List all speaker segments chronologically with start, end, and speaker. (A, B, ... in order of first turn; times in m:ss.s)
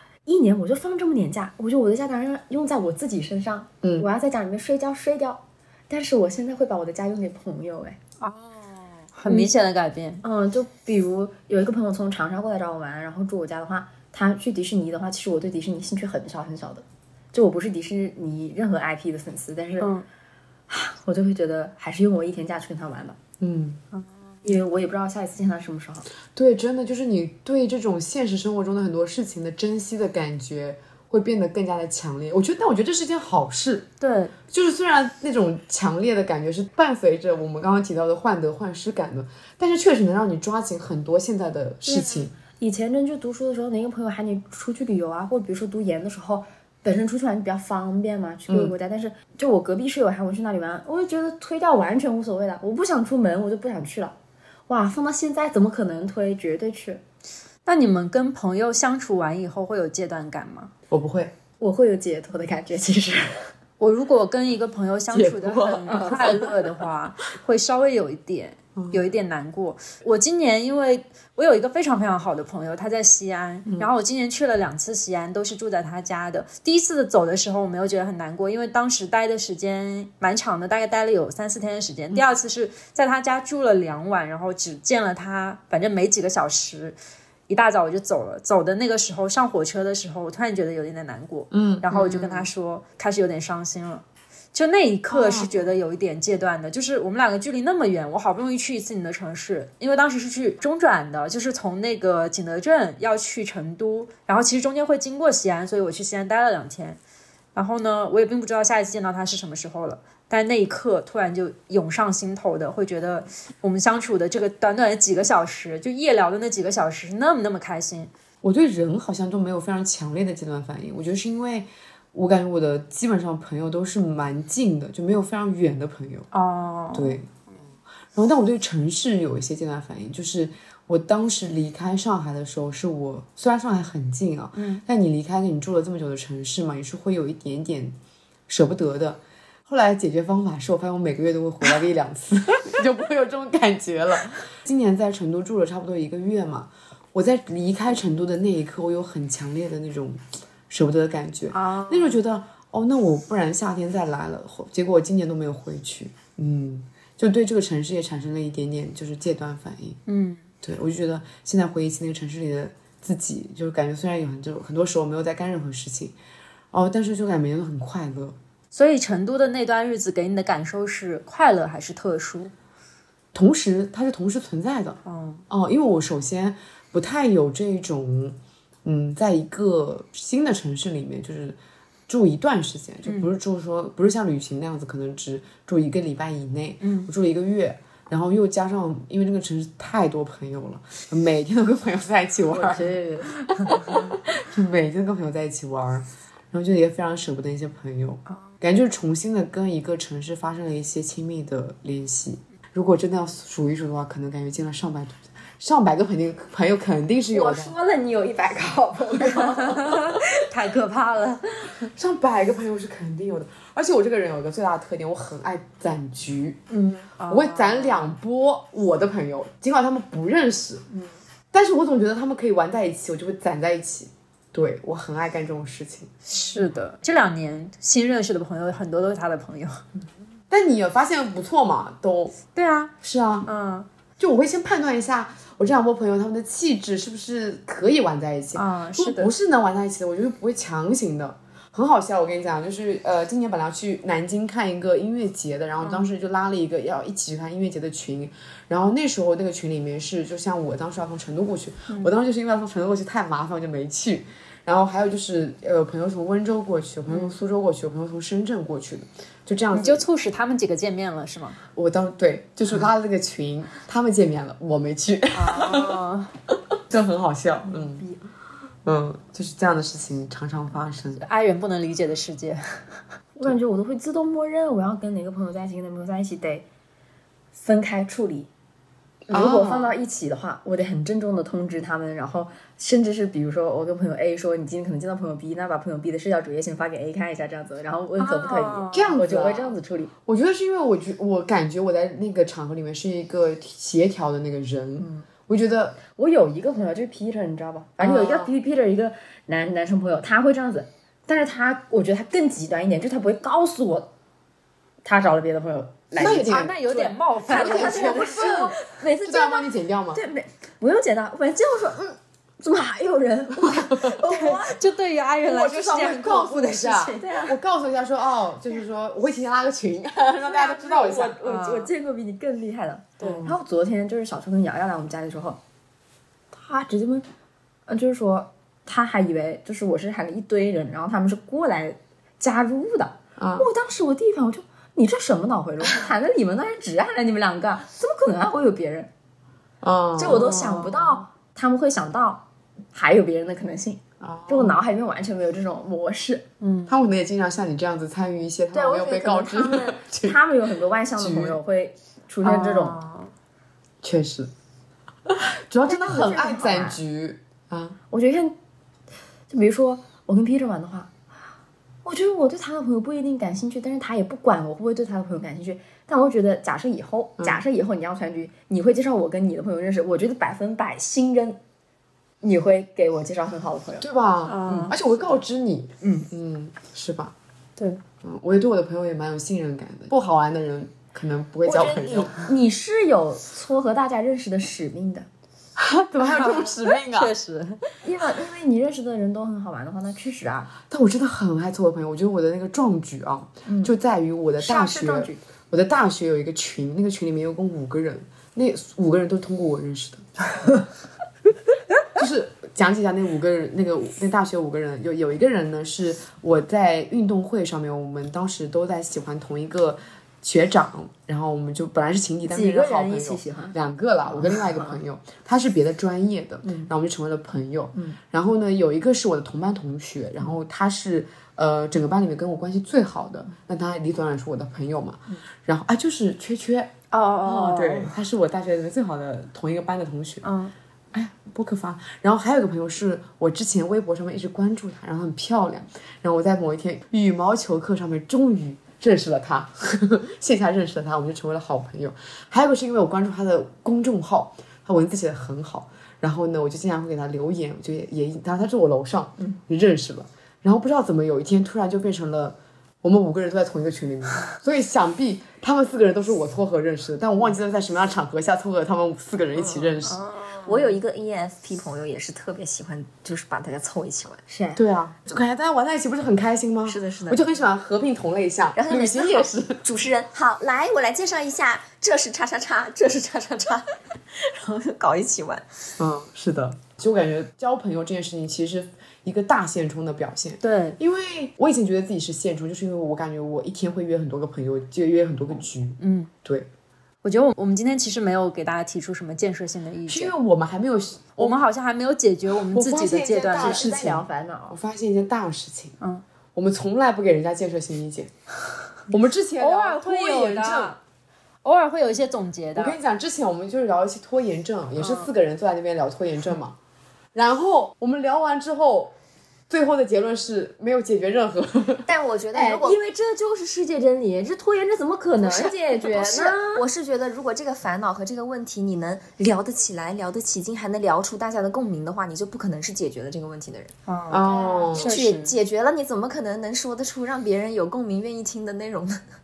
0:00.3-0:08.0 A
0:03.8-0:04.1 B
0:08.2-0:10.2 C
0:09.3-0:09.5 A
0:10.2-0:19.9 A
0:19.8-0:20.1 C
0:20.7-0:23.2 A
0:23.4-0:23.8 B
0:24.4-0:26.1 A
0:26.3-0:33.9 B
0:34.0-0:34.3 C
0:34.5-0:42.4 B
0:41.9-0:54.2 A
0:48.5-0:48.7 B
0:54.7-0:57.0 A
0:57.7-1:00.7 C
1:00.9-1:01.4 B
1:01.6-1:03.5 A
1:03.8-1:27.0 C
1:05.1-1:06.6 B
1:05.9-1:06.5 A
1:08.8-1:09.0 B
1:13.6-1:13.9 B
1:27.5-1:47.0 C
1:31.5-1:32.5 B
1:35.1-1:35.7 B
1:47.6-1:58.1 C
1:58.4-2:06.3 B
2:06.3-2:07.2 C
2:06.9-2:07.3 B
2:08.1-2:18.0 B
2:14.6-2:14.8 C
2:18.5-2:40.0 B
2:31.5-2:32.2 C
2:40.1-2:40.4 C
2:40.6-2:46.2 B
2:46.7-2:48.4 B
2:48.7-2:52.5 C
2:53.3-3:01.6 B
2:55.0-2:55.4 C
3:02.1-3:13.0 B
3:03.0-3:03.3 C
3:06.8-3:07.1 C
3:12.5-3:13.9 A
3:13.5-3:27.8 B
3:27.3-3:30.2 A
3:29.7-3:31.7 C
3:31.8-3:36.7 B
3:36.7-3:38.2 C
3:37.2-3:40.9 B
3:41.5-3:46.1 B
3:46.3-3:49.8 C
3:50.5-3:52.4 B
3:52.6-3:52.9 C
3:53.0-3:53.5 B
3:53.4-3:53.9 C
3:54.2-4:20.1 B
3:58.6-3:59.3 C
4:05.8-4:06.1 C
4:19.7-4:21.6 C
4:21.7-4:26.0 B
4:25.3-4:26.3 C
4:26.7-4:28.1 B
4:27.7-4:28.2 A
4:28.9-4:31.2 B
4:31.2-4:33.0 C
4:33.4-4:36.7 A
4:37.5-4:38.5 A
4:39.3-4:50.1 A
4:39.3-4:40.0 B
4:48.2-4:49.1 C
4:48.9-4:56.0 B
4:55.0-4:55.3 A
4:56.1-5:04.1 A
4:58.0-4:58.5 B
5:05.0-5:14.8 A
5:06.2-5:06.8 B
5:06.2-5:08.7 C
5:07.5-5:10.2 B
5:13.6-5:14.2 B
5:14.3-5:17.2 C
5:15.4-5:21.4 B
5:17.0-5:17.5 A
5:20.4-5:25.6 A
5:21.4-5:21.9 C
5:23.2-5:23.6 C
5:26.5-5:27.3 A
5:27.9-5:39.1 A
5:33.4-5:33.7 B
5:39.8-5:41.0 B
5:40.2-5:46.5 A
5:40.4-5:41.0 C
5:44.2-5:44.8 B
5:46.6-5:46.9 C
5:46.9-5:50.5 B
5:48.7-5:53.0 A
5:51.2-5:51.6 B
5:52.4-5:53.3 C
5:54.0-5:54.5 B
5:55.3-5:58.0 B
5:55.8-5:57.0 A
5:58.1-5:58.6 A
5:59.5-6:01.1 A
6:02.0-6:11.6 A
6:12.4-6:14.0 A
6:14.0-6:17.3 B
6:14.5-6:14.9 C
6:16.0-6:16.3 A
6:18.2-6:22.5 B
6:21.7-6:22.3 D
6:21.8-6:25.3 A
6:25.8-6:27.3 B
6:26.2-6:27.8 C
6:28.0-6:30.7 A
6:30.9-6:40.3 B
6:33.7-6:33.9 A
6:34.6-6:35.4 A
6:42.1-7:06.9 B
6:52.5-6:53.8 A
6:54.3-6:55.0 A
7:07.1-7:08.2 C
7:07.4-7:10.5 B
7:10.4-7:10.7 C
7:11.1-7:40.2 B
7:40.1-7:40.7 C
7:40.6-7:44.4 D
7:44.5-7:44.8 A
7:44.8-7:49.8 B
7:46.9-7:47.4 D
7:48.8-7:55.6 D
7:56.0-8:06.7 B
8:00.6-8:01.0 C
8:06.0-8:06.3 C
8:07.2-8:10.3 C
8:10.1-8:11.6 B
8:11.4-8:13.8 C
8:12.5-8:16.0 B
8:13.6-8:14.8 A
8:16.6-8:18.3 B
8:19.1-8:21.0 B
8:19.6-8:21.0 C
8:21.6-8:23.0 C
8:22.8-8:26.8 B
8:25.0-8:25.3 C
8:27.3-8:29.1 B
8:29.7-8:32.1 B
8:32.0-8:33.0 D
8:32.5-8:36.8 A
8:35.4-8:43.9 D
8:44.1-8:45.5 C
8:44.3-8:45.2 B
8:44.8-8:49.2 D